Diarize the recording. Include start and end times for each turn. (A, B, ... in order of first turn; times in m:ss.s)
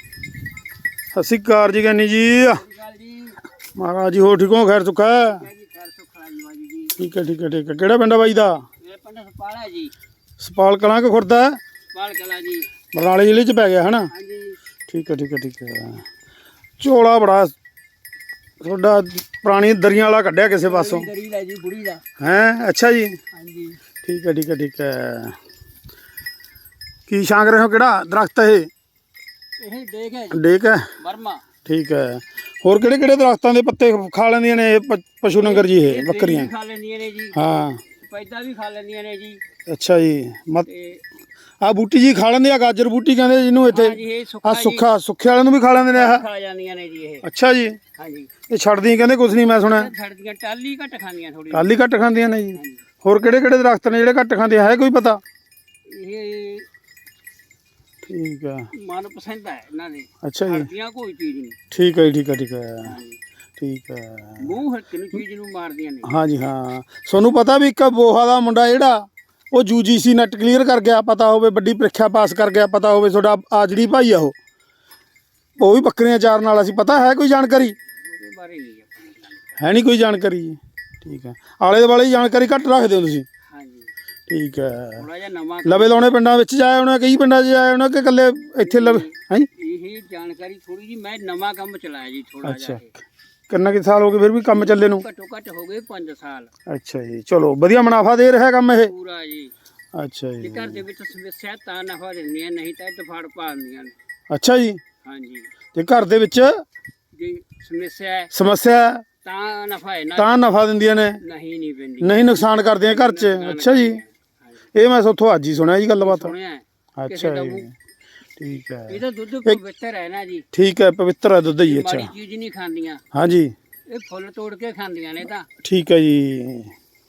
0:01.1-0:02.6 A
0:02.5-0:03.4 B
0:03.8-0:05.4 A
0:05.2-0:07.0 B
0:07.0-0:08.6 A
0:08.8-0:09.9 B
0:10.4-0:11.6 A
0:11.9-0:12.7 B
0:12.9-0:14.1 A
0:14.1-0:14.6 B
0:14.9-0:16.0 A
0:16.8-0:17.5 A
0:18.6-0:21.1 A
0:20.6-0:22.0 B
0:22.2-0:23.2 A
0:23.3-0:23.8 B
0:24.0-0:25.4 A
0:27.1-0:28.7 A
0:29.6-0:31.5 B
0:30.3-0:30.9 A
0:31.6-0:36.5 A
0:35.4-0:37.4 B
0:37.4-0:37.8 A
0:38.0-0:39.4 B
0:39.7-0:40.7 A
0:40.7-0:41.0 B
0:41.6-0:46.3 A
0:43.7-0:44.9 B
0:45.8-0:47.3 B
0:47.2-0:47.8 A
0:48.0-0:48.3 B
0:48.5-0:49.9 A
0:49.6-0:51.8 B
0:51.5-0:55.2 A
0:52.5-0:52.8 B
0:55.9-0:56.7 B
0:58.0-0:58.7 A
0:58.7-1:01.6 B
1:00.2-1:00.7 A
1:01.7-1:03.0 A
1:02.8-1:03.2 B
1:03.6-1:04.6 A
1:04.4-1:06.1 B
1:06.0-1:14.4 A
1:15.6-1:17.8 A
1:17.8-1:19.4 B
1:19.6-1:23.3 A
1:23.5-1:23.9 B
1:24.3-1:25.0 A
1:25.0-1:26.2 B
1:25.6-1:29.5 A
1:28.6-1:32.9 B
1:32.4-1:32.9 A
1:33.5-1:35.0 A
1:34.5-1:36.5 B
1:36.7-1:38.9 A
1:38.8-1:39.5 B
1:40.0-1:40.8 A
1:40.4-1:43.9 B
1:44.3-1:44.8 A
1:45.0-1:45.5 B
1:45.8-1:46.5 A
1:47.2-1:48.3 B
1:48.3-1:49.0 A
1:49.2-1:50.6 B
1:50.2-1:51.2 A
1:51.1-1:54.1 B
1:52.0-1:54.0 A
1:54.8-1:56.3 A
1:56.0-1:57.7 B
1:57.0-1:57.7 A
1:58.4-1:59.6 A
1:58.9-2:00.4 B
2:00.5-2:02.1 A
2:01.6-2:03.0 B
2:03.1-2:03.5 A
2:03.9-2:05.5 B
2:05.6-2:06.7 A